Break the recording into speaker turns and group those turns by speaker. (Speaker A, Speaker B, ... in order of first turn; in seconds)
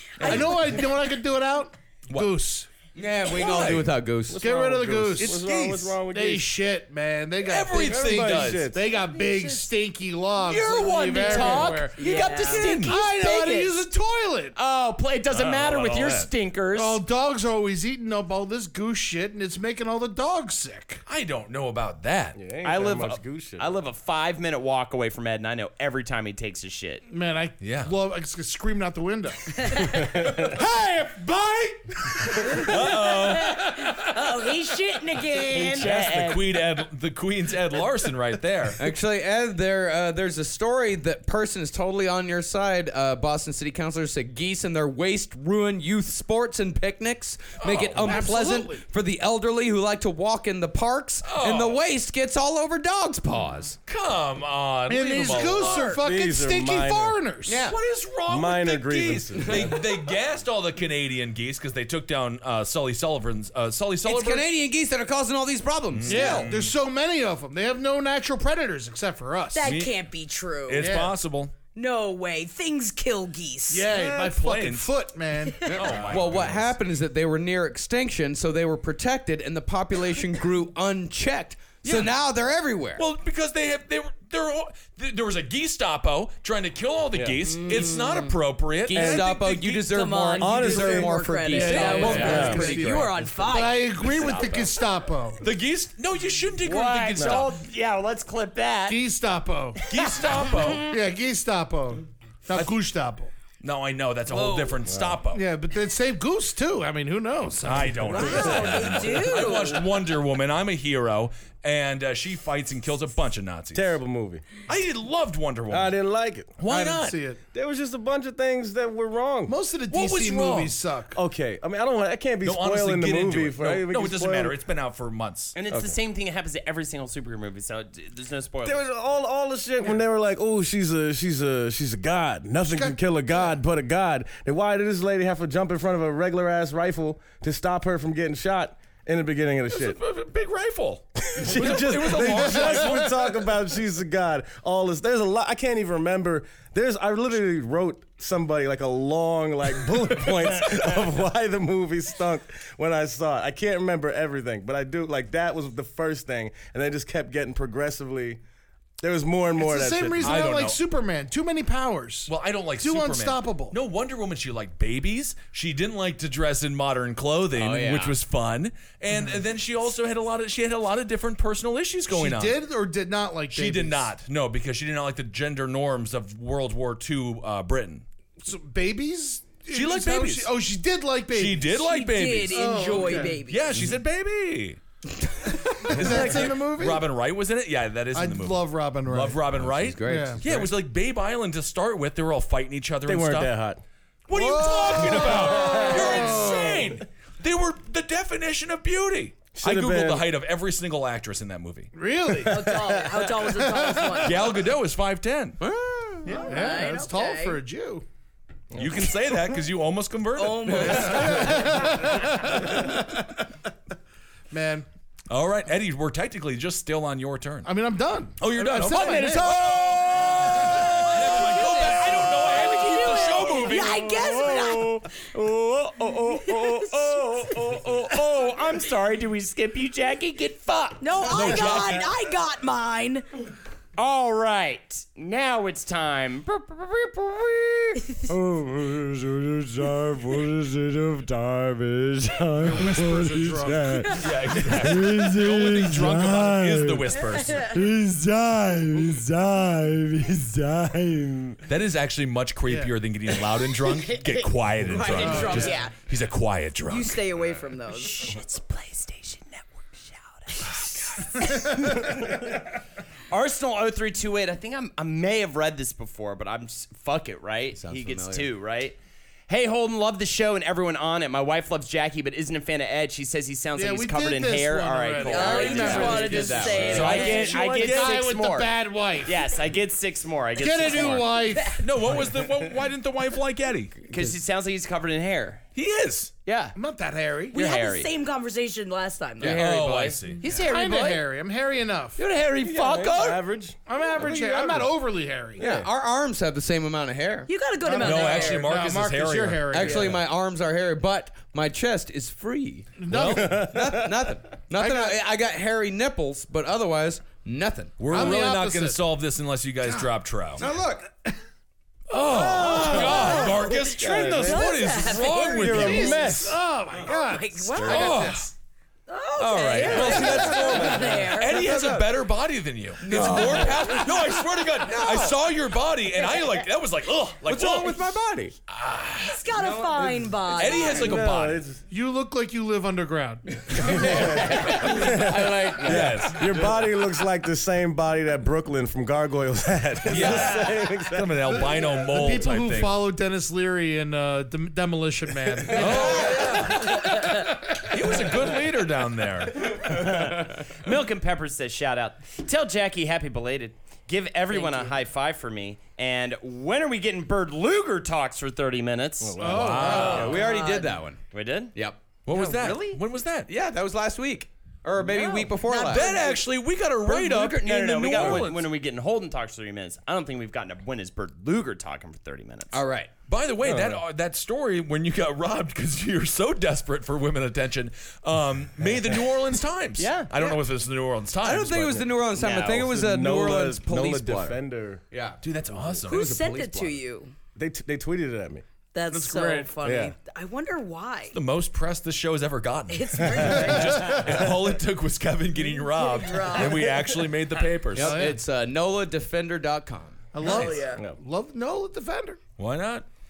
Speaker A: 0.2-0.7, 3.3-3.9, 5.3-6.0, 7.4-8.8, 12.5-13.0, 15.3-16.3, 21.1-22.4, 27.6-27.9, 32.2-34.4, 35.7-38.8, 47.6-48.3, 51.2-51.8, 53.9-56.0, 57.5-64.5, 65.9-66.7, 69.6-70.0, 70.7-71.5, 73.9-74.9, 75.7-76.7, 81.8-82.1, 83.0-89.9, 92.1-92.5, 95.4-97.6, 99.9-100.9, 103.6-105.4, 107.6-113.9, 114.7-116.0, 116.6-117.2, 119.9-120.8, 122.4-125.5, 139.7-143.4, 150.2-150.8, 160.2-160.8, 162.3-172.6, 173.5-178.0, 179.7-180.5, 181.3-184.8, 185.7-193.5, 194.3-201.9, 204.2-205.6, 208.7-211.6, 215.3-217.7, 218.4-224.1, 231.2-232.1, 244.1-247.7, 251.7-257.2, 276.8-278.2, 281.8-284.0, 285.7-286.3, 289.4-290.4, 298.0-300.0, 303.1-303.6, 308.0-310.6, 312.1-316.5, 317.9-318.5, 319.4-328.0, 328.7-329.5, 330.5-331.7, 335.8-336.6, 340.1-343.0, 345.7-347.2, 347.8-350.1, 359.5-360.4, 362.2-363.5, 365.8-368.7, 373.3-382.1, 385.4-386.3, 391.3-398.2, 400.4-400.8, 402.6-403.1
Speaker B: 0.2-2.7, 4.4-5.4, 6.1-14.6, 16.7-21.0, 27.1-32.7, 48.0-48.8, 54.9-57.6, 66.1-69.7, 70.8-71.1, 73.7-75.7, 91.5-95.4, 98.9-99.8, 100.8-103.3, 105.3-108.8, 116.7-117.4, 119.5-121.2, 132.7-133.0, 142.1-143.0, 159.6-163.8, 172.1-174.1, 178.4-181.9, 182.5-183.4, 185.8-187.1, 188.1-189.4, 190.0-190.7, 194.3-197.0, 201.9-202.8, 203.4-204.5, 206.2-208.0, 210.9-213.3, 214.5-214.8, 217.6-219.8, 242.6-244.1, 252.7-252.9, 255.2-255.8, 273.8-279.4, 280.6-281.8, 286.8-287.6, 290.4-292.2, 293.9-295.6, 297.8-300.2, 303.0-303.7, 304.7-305.2, 308.1-309.1, 315.7-318.5, 331.9-334.3, 342.0-348.1, 359.4-360.5, 389.1-389.7, 393.6-394.3, 397.9-398.4, 400.3-402.4
Speaker C: 2.9-4.4, 38.8-53.8, 57.5-57.8, 64.0-66.5, 75.7-83.0, 88.8-93.3, 167.5-168.2, 189.5-190.6, 205.6-206.5, 267.8-268.5, 275.5-277.2, 295.6-297.5, 299.7-308.1, 310.6-311.1, 319.9-322.0, 323.0-325.3, 327.4-328.5, 333.7-336.5, 359.8-361.2, 361.7-362.0, 363.5-366.1, 372.7-373.1, 381.4-384.6, 385.1-387.0, 397.9-400.2
Speaker D: 4.3-6.5, 7.8-8.8, 22.4-23.7, 30.0-30.6, 56.0-57.2, 58.3-59.8, 87.1-87.4, 88.9-89.3, 90.4-91.1, 92.1-92.7, 97.2-97.5, 104.8-105.2, 113.7-114.4, 115.7-116.5, 117.5-119.5, 121.1-124.5, 125.7-126.0, 128.6-140.0, 141.3-158.4, 159.0-160.5, 193.1-193.8, 195.2-196.2, 199.5-200.3, 208.7-209.1, 238.3-251.6, 292.6-294.9, 295.6-295.9, 303.3-304.3, 312.5-316.6, 330.7-331.8, 333.7-342.0, 359.2-360.1, 373.6-374.0, 382.7-385.0, 387.6-388.6, 389.8-390.1
Speaker E: 9.0-9.7, 11.1-12.9, 32.7-35.9, 69.5-71.0, 71.7-73.9, 75.5-75.9, 87.5-88.3, 89.9-94.7, 104.3-104.8, 108.1-109.9, 181.8-183.8, 202.4-204.5, 206.3-207.6, 210.3-211.9, 220.3-225.1, 226.4-227.2, 231.0-233.2, 247.3-247.7, 253.8-256.0, 256.8-258.4, 260.6-261.2, 275.2-277.6, 287.5-289.9, 297.5-298.7, 312.6-316.3, 317.1-318.3, 319.1-321.8, 323.1-324.2, 324.8-325.3, 326.2-326.5, 329.2-331.3, 354.5-354.9, 360.3-361.0, 365.1-366.4, 386.1-387.3, 388.9-391.4, 392.9-394.2, 395.6-397.2, 400.5-401.0
Speaker F: 10.4-13.8, 14.5-17.0, 22.6-27.1, 35.5-36.7, 94.1-94.7, 96.6-99.0, 99.9-100.7, 125.5-128.8, 224.2-231.7, 234.0-238.0, 257.9-262.6, 263.3-269.0, 269.5-281.5, 284.1-285.6, 286.4-286.8, 287.5-288.1, 289.6-291.2, 292.2-293.4, 349.7-359.4, 361.3-361.7, 362.3-363.0, 367.0-372.8, 380.0-380.5, 382.4-382.9